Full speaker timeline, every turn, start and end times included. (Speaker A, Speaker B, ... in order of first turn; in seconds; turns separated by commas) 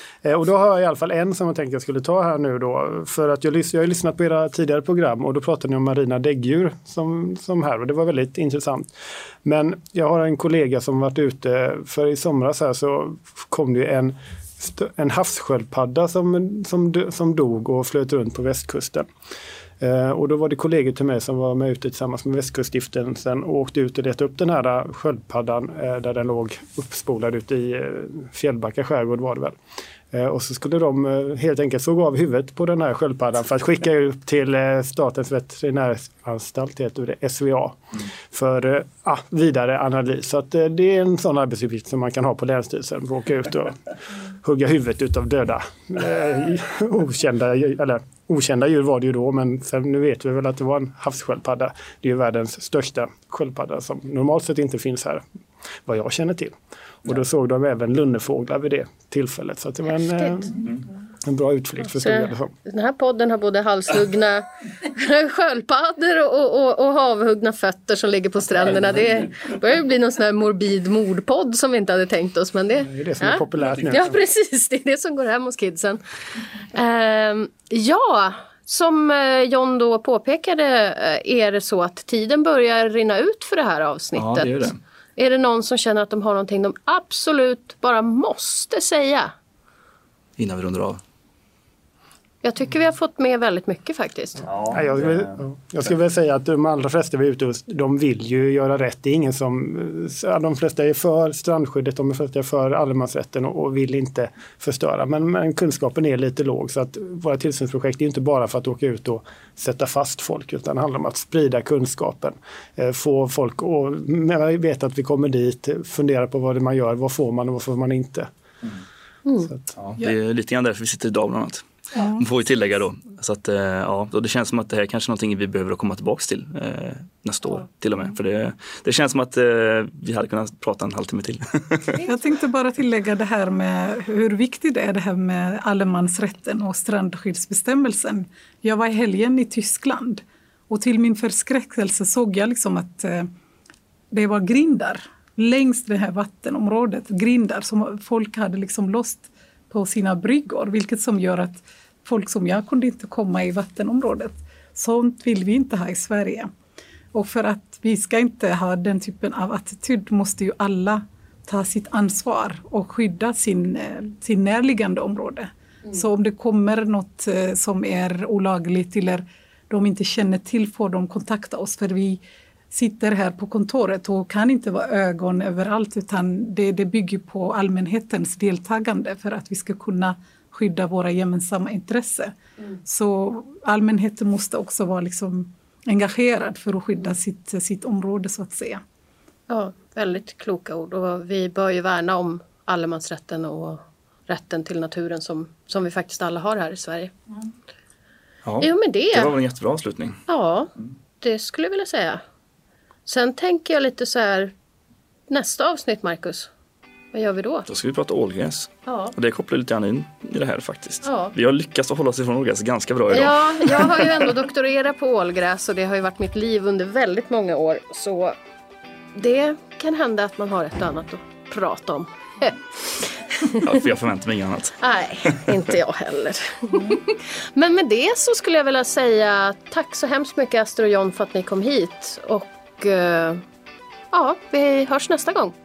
Speaker A: 0.2-8.9, Speaker A: 9.4-19.1, Speaker A: 19.8-29.6, Speaker A: 30.1-55.2, Speaker A: 55.9-62.5, Speaker B: 62.0-76.0, Speaker A: 72.8-74.2, Speaker B: 76.7-89.3, Speaker C: 84.2-84.8, Speaker C: 90.4-91.0, Speaker B: 92.4-94.5, Speaker C: 94.5-94.8, Speaker A: 94.7-118.3, Speaker A: 119.4-119.7, Speaker C: 119.8-132.0, Speaker D: 121.9-122.2, Speaker D: 132.0-143.3, Speaker D: 144.1-156.5, Speaker D: 157.1-188.8, Speaker B: 189.5-197.1, Speaker C: 198.4-200.2, Speaker B: 198.6-199.3, Speaker B: 200.3-202.2, Speaker B: 203.1-204.5, Speaker B: 205.3-206.5, Speaker B: 207.1-207.7, Speaker C: 207.7-214.1, Speaker B: 208.8-209.1, Speaker B: 211.0-211.3, Speaker B: 213.1-218.3, Speaker B: 219.1-223.7, Speaker C: 223.6-225.6, Speaker B: 224.8-233.4, Speaker B: 234.1-235.5